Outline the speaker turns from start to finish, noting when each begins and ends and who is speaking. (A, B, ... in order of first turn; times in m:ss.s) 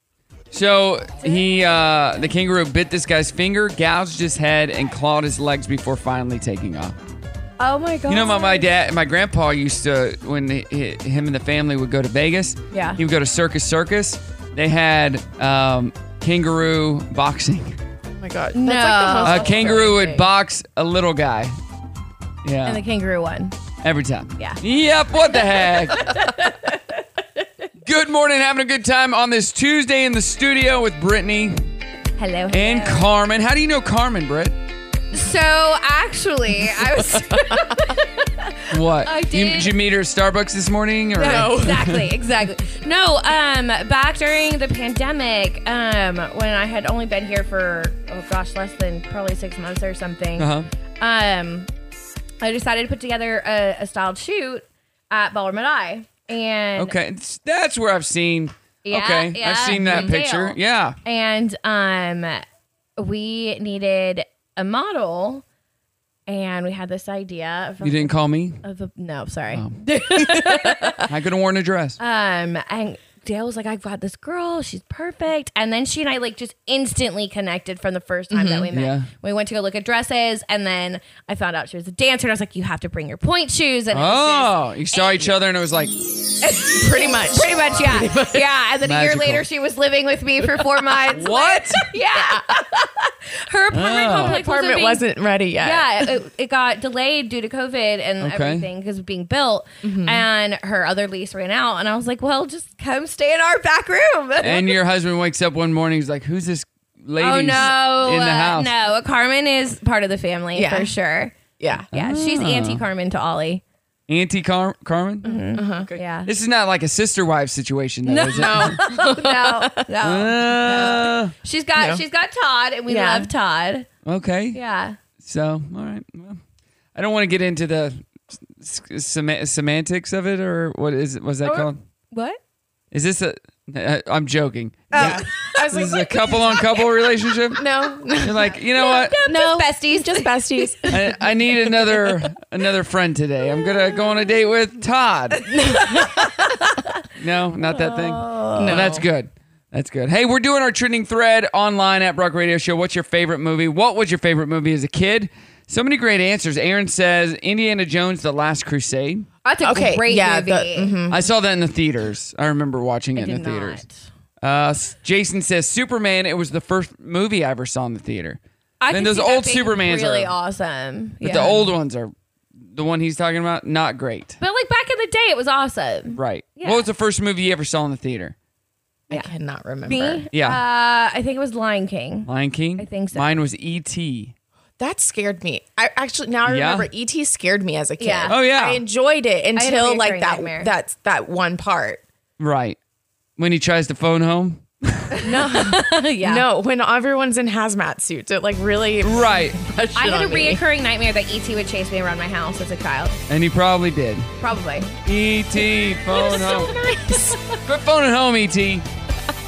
0:00.5-0:07.0 A
0:07.6-0:08.7 B
0:08.1-0:17.8 A
0:12.7-0:13.0 B
0:18.1-0:20.2 C
0:18.6-0:20.0 B
0:19.2-0:21.6 A
0:22.4-0:22.8 A
0:22.6-0:23.6 B
0:23.8-0:26.0 A
0:25.3-0:26.8 B
0:27.8-0:31.7 A
0:32.2-0:33.1 B
0:32.5-0:34.6 A
0:35.1-0:39.7 B
0:37.1-0:37.8 C
0:38.7-0:42.0 A
0:41.2-0:51.7 B
0:41.2-0:41.8 C
0:50.4-0:50.7 A
0:52.4-0:57.0 B
0:56.8-1:01.0 A
0:58.9-1:02.4 B
0:59.7-1:00.1 C
1:03.0-1:05.4 B
1:06.3-1:11.0 B
1:07.8-1:08.6 A
1:09.5-1:09.8 A
1:11.1-1:12.0 A
1:12.0-1:25.4 B
1:18.3-1:18.7 C
1:18.7-1:19.1 A
1:23.9-1:26.0 A
1:26.4-1:28.4 C
1:26.5-1:35.0 B
1:28.8-1:29.4 A
1:31.1-1:31.8 A
1:32.2-1:32.4 C
1:33.7-1:34.4 A
1:34.2-1:36.1 C
1:35.6-1:44.8 B
1:38.2-1:38.7 A
1:39.8-1:40.3 C
1:44.4-1:48.7 A
1:47.2-1:51.4 B
1:50.6-1:50.9 C
1:51.6-1:51.9 C
1:51.9-1:53.6 B
1:51.9-1:52.8 A
1:54.1-1:55.3 A
1:55.2-1:56.3 B
1:55.5-1:55.9 C
1:55.9-1:58.8 A
1:58.1-2:03.9 B
1:58.3-1:59.8 C
2:00.0-2:01.3 A
2:00.7-2:01.0 C
2:01.8-2:02.0 C
2:02.9-2:03.3 C
2:04.1-2:04.6 A
2:04.5-2:05.0 B
2:05.2-2:06.4 A
2:07.0-2:11.8 A
2:11.4-2:12.4 B
2:12.9-2:17.6 A
2:14.9-2:15.2 B
2:14.9-2:16.3 C
2:17.6-2:18.6 C
2:18.2-2:19.2 A
2:18.7-2:21.1 B
2:19.3-2:21.0 C
2:20.9-2:25.5 A
2:25.5-2:26.2 C
2:25.8-2:26.2 B
2:27.2-2:39.3 A
2:27.7-2:28.9 B
2:28.6-2:29.1 C
2:39.4-2:41.0 B
2:39.6-2:41.2 C
2:41.1-2:43.8 A
2:43.2-2:44.0 B
2:44.4-2:50.3 A
2:48.8-2:51.7 B
2:51.2-2:52.1 A
2:52.7-2:54.4 A
2:54.4-2:56.9 B
2:56.1-2:58.4 A
2:59.1-3:00.2 C
2:59.9-3:03.3 B
3:00.3-3:00.6 A
3:02.3-3:04.3 A
3:04.8-3:12.0 C
3:06.5-3:06.9 A
3:08.0-3:08.4 B
3:08.3-3:08.8 A
3:09.6-3:10.7 B
3:12.4-3:12.8 A
3:13.4-3:15.1 A
3:15.2-3:16.5 B
3:15.2-3:20.6 C
3:19.0-3:19.6 A
3:20.0-3:23.2 B
3:23.3-3:24.3 A
3:24.4-3:24.9 B
3:25.0-3:26.7 A
3:26.5-3:26.9 B
3:26.7-3:27.4 C
3:27.6-3:28.9 A